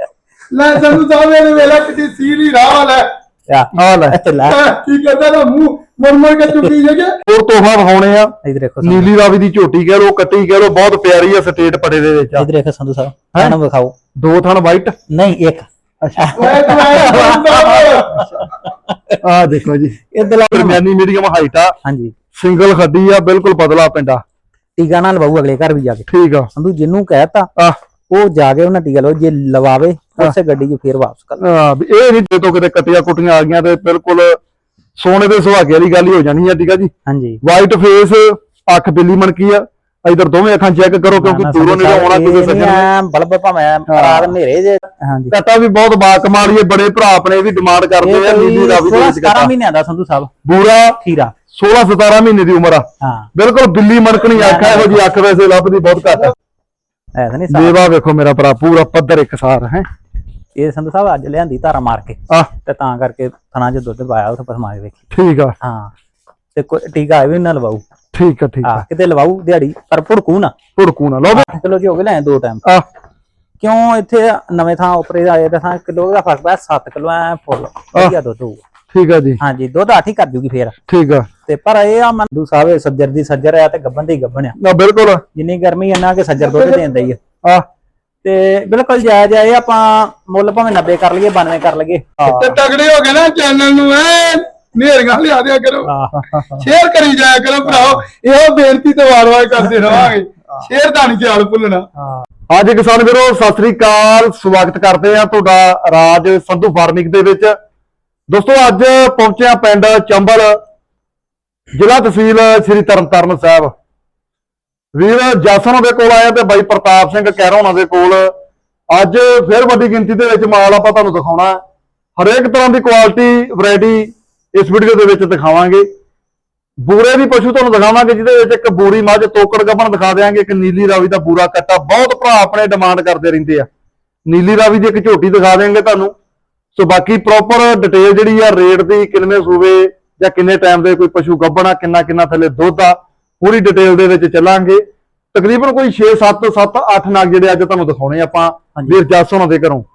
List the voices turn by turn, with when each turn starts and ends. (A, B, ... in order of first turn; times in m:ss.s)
0:00.5-0:03.1 A
0:03.5-0:04.6 B
0:03.8-0:04.2 C
0:04.5-0:07.2 A
0:07.3-0:12.5 C
0:08.4-0:09.1 B
0:12.4-0:14.0 B
0:14.2-0:15.0 C
0:15.1-0:19.2 B
0:16.0-0:16.4 C
0:16.4-0:18.4 A
0:19.2-0:21.8 C
0:20.1-0:20.8 B
0:21.8-0:22.1 B
0:22.3-0:24.2 C
0:24.8-0:27.5 B
0:26.1-0:26.5 C
0:28.1-0:31.4 B
0:31.4-0:34.4 C
0:35.0-0:36.9 C
0:37.1-0:37.4 B
0:37.4-0:42.9 C
0:41.1-0:45.4 B
0:43.9-0:44.4 C
0:45.3-0:49.5 C
0:48.0-0:50.3 B
0:50.4-0:51.0 C
0:51.0-0:51.3 B
0:51.5-0:56.4 C
0:53.0-0:53.3 B
0:54.3-0:55.1 B
0:57.2-0:57.8 B
0:57.5-0:59.9 C
1:00.6-1:05.0 B
1:05.1-1:05.6 C
1:05.6-1:05.9 B
1:06.5-1:07.8 B
1:08.1-1:08.8 C
1:08.6-1:10.6 B
1:10.8-1:11.5 C
1:11.3-1:12.6 B
1:13.6-1:18.6 B
1:18.9-1:19.4 C
1:19.4-1:20.8 B
1:20.9-1:21.3 C
1:21.5-1:24.6 B
1:24.6-1:25.2 C
1:25.3-1:27.2 B
1:26.4-1:27.1 A
1:28.2-1:32.2 B
1:32.2-1:32.6 C
1:32.2-1:35.9 A
1:35.9-1:36.2 B
1:36.1-1:36.7 C
1:36.6-1:41.9 A
1:37.7-1:38.0 C
1:42.0-1:47.6 C
1:48.3-1:50.6 C
1:51.7-1:53.7 C
1:54.9-1:58.3 C
1:58.9-2:01.6 C
2:02.2-2:05.9 C
2:06.8-2:13.7 C
2:14.3-2:16.1 C
2:16.8-2:29.9 C